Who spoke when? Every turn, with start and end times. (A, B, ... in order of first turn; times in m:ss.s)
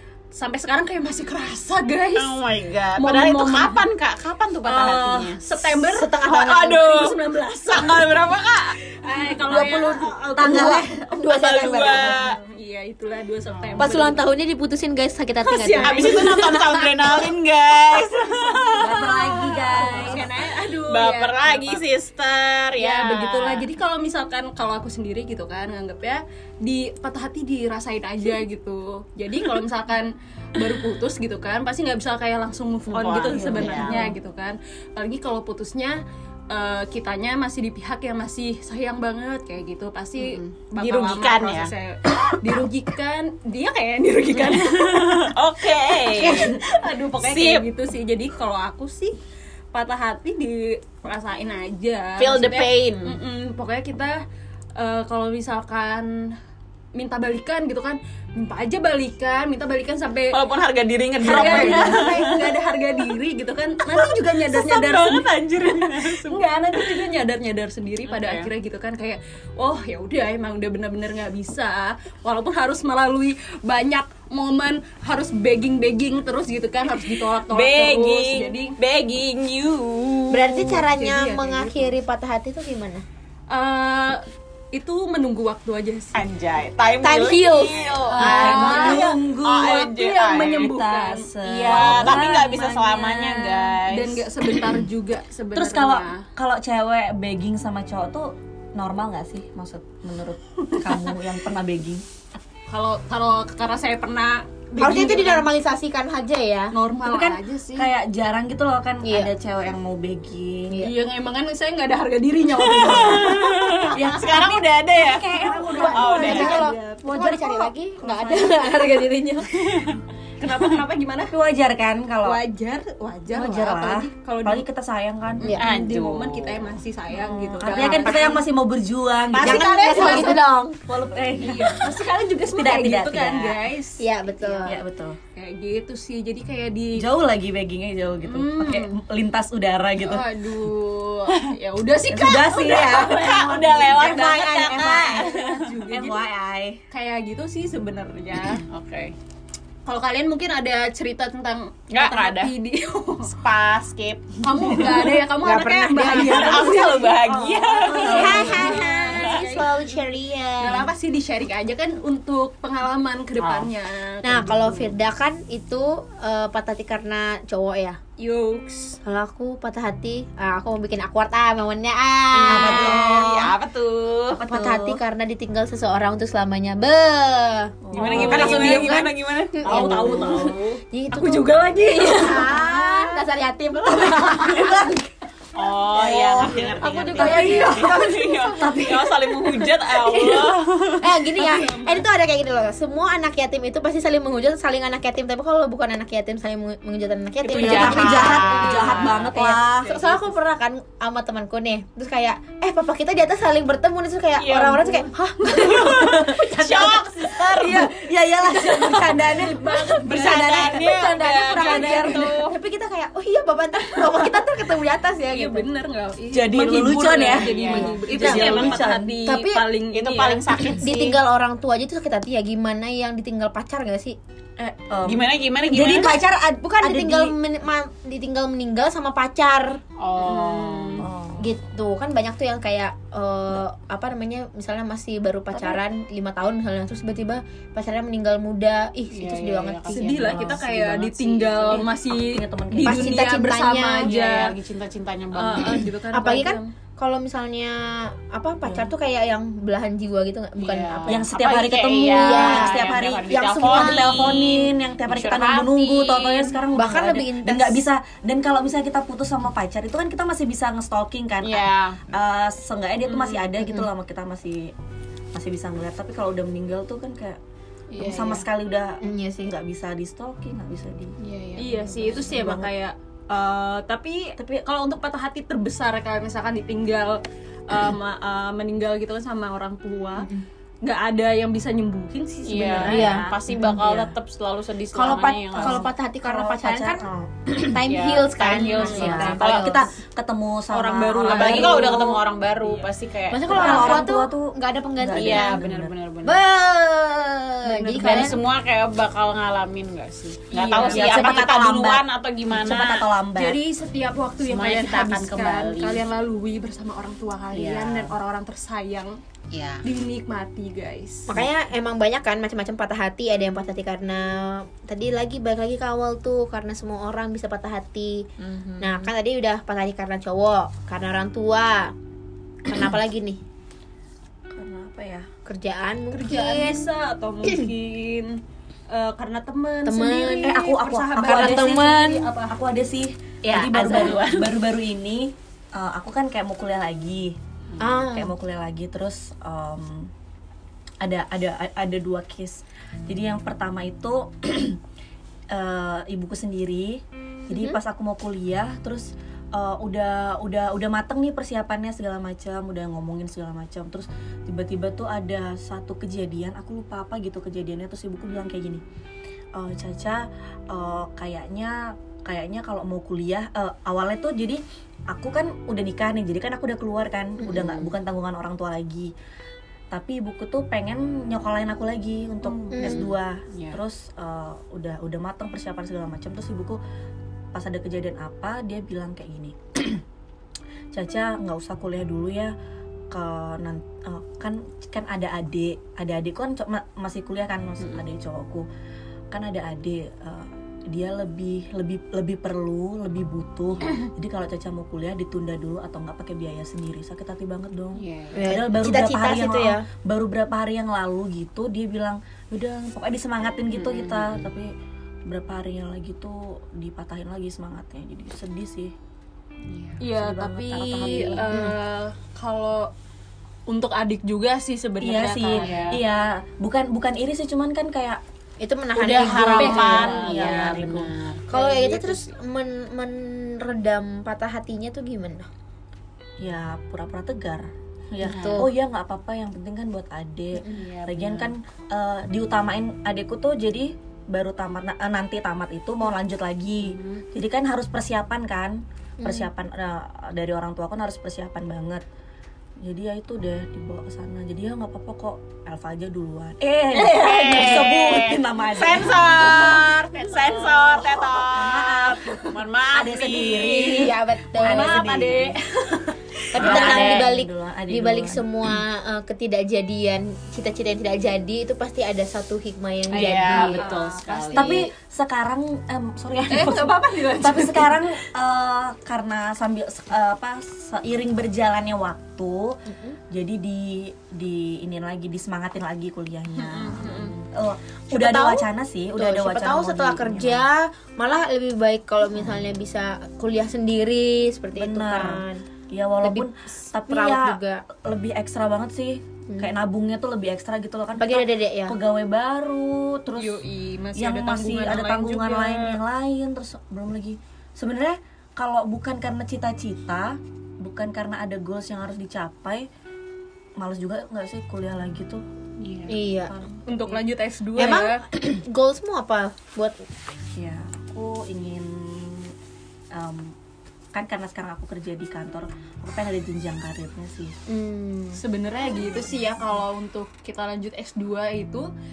0:00.3-0:02.4 A
0:02.2-0:05.4 B
0:03.0-0:03.8 A
0:04.6-0:08.1 A
0:05.7-0:06.8 C
0:06.2-0:07.2 B
0:07.7-0:08.8 B
0:09.0-0:10.8 A
0:09.4-0:12.1 C
0:10.3-0:11.1 D
0:11.2-0:12.4 B
0:12.0-0:14.2 A
0:13.5-0:13.9 B
0:13.8-0:16.4 C
0:15.4-0:17.1 A
0:15.8-0:20.3 B
0:18.1-0:21.8 A
0:18.8-0:20.3 D
0:20.8-0:23.7 B
0:22.8-0:45.3 A
0:32.9-0:34.0 B
0:33.3-0:34.1 D
0:40.2-0:41.7 B
0:44.5-0:46.6 B
0:46.0-0:49.2 A
0:47.2-0:47.6 B
0:49.7-0:54.2 A
0:52.2-0:53.2 B
0:54.8-0:56.4 A
0:56.9-1:00.4 A
1:00.3-1:02.5 B
1:01.2-1:02.2 D
1:01.2-1:18.8 A
1:03.9-1:06.8 B
1:08.1-1:08.5 B
1:17.5-1:20.7 B
1:20.3-1:23.0 C
1:20.7-1:21.9 A
1:23.5-1:26.2 A
1:26.1-1:30.8 B
1:27.0-1:28.6 C
1:28.1-1:36.3 A
1:28.2-1:29.8 D
1:30.6-1:32.5 D
1:31.4-1:34.3 B
1:35.5-1:42.0 D
1:40.7-1:41.0 A
1:42.7-1:45.5 A
1:44.8-1:46.7 C
1:46.7-1:47.9 A
1:47.0-1:50.9 D
1:49.0-1:49.3 C
1:50.8-1:54.0 A
1:52.6-1:55.2 B
1:53.9-1:58.5 D
1:55.3-2:01.3 A
1:55.7-1:59.2 C
1:55.9-1:56.6 B
2:00.6-2:02.4 D
2:02.2-2:04.6 A
2:03.3-2:05.5 D
2:05.4-2:08.2 A
2:05.4-2:06.8 B
2:07.1-2:11.9 D
2:07.9-2:08.4 C
2:07.9-2:08.4 B
2:09.3-2:10.0 B
2:09.4-2:10.8 C
2:09.4-2:10.4 A
2:11.4-2:14.7 A
2:12.4-2:13.6 D
2:14.0-2:14.8 C
2:14.6-2:15.2 D
2:15.3-2:17.0 A
2:17.0-2:20.2 D
2:18.2-2:18.9 A
2:20.0-2:24.0 A
2:22.1-2:25.3 D
2:22.7-2:25.6 B
2:24.7-2:26.2 A
2:25.9-2:26.8 D
2:26.9-2:28.6 A
2:28.6-2:29.1 B
2:29.8-2:33.3 A
2:31.9-2:32.5 B
2:33.3-2:34.9 B
2:34.4-2:40.0 A
2:35.4-2:36.7 C
2:36.2-2:39.7 B
2:37.2-2:38.8 D
2:38.0-2:40.9 C
2:40.6-2:44.9 A
2:43.4-2:43.7 B
2:44.2-2:48.0 C
2:48.2-2:49.0 A
2:49.0-2:53.3 C
2:52.4-2:54.4 B
2:52.4-2:53.5 D
2:54.3-2:55.0 D
2:54.5-3:05.0 C
2:57.8-2:58.7 D
2:58.0-2:59.0 A
2:58.0-3:00.8 B
2:59.6-3:03.0 A
3:04.1-3:05.0 D
3:05.5-3:11.2 B
3:05.9-3:08.0 D
3:06.8-3:08.3 C
3:06.8-3:08.9 A
3:08.5-3:09.1 D
3:09.9-3:18.6 C
3:11.4-3:12.0 A
3:17.4-3:19.2 B
3:17.6-3:20.0 D
3:17.6-3:20.2 A
3:19.9-3:25.8 C
3:24.4-3:27.8 B
3:25.2-3:26.9 A
3:25.7-3:26.5 D
3:27.5-3:29.4 D
3:27.5-3:30.6 A
3:28.8-3:35.7 C
3:30.1-3:32.6 B
3:31.6-3:32.2 A
3:35.3-3:40.5 A
3:36.3-3:39.2 D
3:36.8-3:38.8 B
3:38.2-3:38.5 C
3:39.2-3:39.6 C
3:39.9-3:41.2 B
3:40.8-3:44.2 C
3:44.6-3:47.3 D
3:45.0-3:46.2 B
3:46.6-3:49.8 C
3:50.0-3:51.1 B
3:50.2-3:51.0 A
3:51.0-3:51.5 D
3:51.4-4:00.4 C
3:59.1-4:00.6 B
3:59.9-4:04.5 A
4:00.2-4:01.1 D
4:01.2-4:01.8 C
4:01.6-4:03.3 D
4:02.8-4:04.1 C
4:04.0-4:05.8 B
4:05.3-4:06.7 A
4:06.1-4:11.3 C
4:10.6-4:16.5 B
4:11.1-4:24.7 D
4:12.0-4:14.6 C
4:16.7-4:17.8 C
4:21.4-4:22.0 B
4:23.6-4:23.9 C
4:25.3-4:27.4 D
4:27.9-4:28.4 C
4:28.0-4:31.2 D
4:29.0-4:29.5 C
4:31.2-4:32.4 C
4:31.6-4:40.3 A
4:32.2-4:32.7 D
4:34.4-4:34.6 D
4:40.2-4:40.4 C
4:40.8-4:43.3 A
4:42.4-4:45.9 B
4:42.8-4:43.9 C
4:43.7-4:44.1 D
4:44.9-4:49.8 C
4:45.5-4:47.8 D
4:47.9-4:49.8 B
4:48.6-4:49.4 A
4:48.9-4:52.0 D
4:50.7-4:52.0 A
4:51.2-4:54.1 B
4:51.7-4:52.1 C
4:53.3-4:55.6 C
4:53.4-4:55.9 D
4:55.1-4:56.4 B
4:56.2-4:58.4 C
4:57.6-4:58.3 A
4:58.0-5:03.1 B
5:00.5-5:01.2 A
5:00.9-5:03.6 D
5:01.1-5:01.4 C
5:03.3-5:09.2 A
5:04.4-5:06.0 B
5:07.5-5:08.1 B
5:09.5-5:09.8 B
5:09.8-5:11.3 A
5:11.3-5:18.3 C
5:18.4-5:19.1 B
5:18.8-5:21.9 C
5:22.6-5:23.4 C
5:24.5-5:25.3 D
5:25.4-5:26.9 C
5:26.1-5:32.6 A
5:29.8-5:30.6 C
5:30.4-5:37.4 D
5:31.2-5:32.2 C
5:33.4-5:34.5 B
5:37.8-5:38.3 C
5:38.0-5:40.1 D
5:41.0-5:44.8 D
5:45.5-5:58.8 D
5:47.5-5:47.8 C
5:59.5-6:09.1 D
6:07.4-6:07.9 B
6:09.9-6:16.8 D
6:12.4-6:12.9 A
6:12.7-6:13.1 C
6:13.5-6:13.8 B
6:17.5-6:20.0 D
6:20.9-6:22.5 D
6:23.1-6:28.7 D
6:29.3-6:44.7 D
6:38.0-6:38.6 B
6:38.3-6:39.8 C
6:43.7-6:44.5 B
6:45.3-6:48.9 D
6:49.7-6:50.0 B
6:50.0-6:52.9 A
6:50.1-6:51.5 D
6:51.5-6:51.7 C
6:53.7-6:55.7 A
6:55.0-6:58.2 D
6:55.6-6:56.0 B
6:58.6-7:00.4 C
6:59.0-7:02.2 B
6:59.2-7:01.1 D
6:59.6-7:00.3 A
7:01.5-7:05.5 C
7:06.4-7:22.0 D
7:08.2-7:08.7 C
7:08.2-7:08.7 B
7:10.7-7:11.5 B
7:16.8-7:17.2 B
7:19.2-7:19.5 C
7:22.8-7:29.8 D
7:26.9-7:28.0 A
7:27.1-7:34.0 B
7:29.2-7:29.8 A
7:30.7-7:31.1 A
7:31.5-7:32.4 D
7:32.2-7:32.5 A
7:32.9-7:35.5 D
7:33.6-7:35.1 C
7:34.0-7:36.8 A
7:36.5-7:43.8 C
7:36.6-7:38.4 D
7:36.6-7:37.3 B
7:43.1-7:44.8 B
7:43.1-7:44.9 A
7:44.5-8:00.6 D
7:46.5-7:48.0 A
7:52.9-7:53.2 C
7:56.5-7:57.4 A
7:58.1-8:05.6 C
8:04.7-8:13.6 D
8:06.2-8:07.8 C
8:11.2-8:12.0 C
8:13.4-8:16.0 A
8:14.2-8:22.9 D
8:23.8-8:25.4 D
8:25.8-8:26.2 B
8:26.1-8:26.5 C
8:26.3-8:27.2 D
8:26.8-8:28.2 A
8:27.7-8:30.0 C
8:30.6-8:32.5 D
8:33.1-8:33.5 D
8:34.1-8:37.6 D
8:37.7-8:38.4 C
8:38.3-8:41.9 A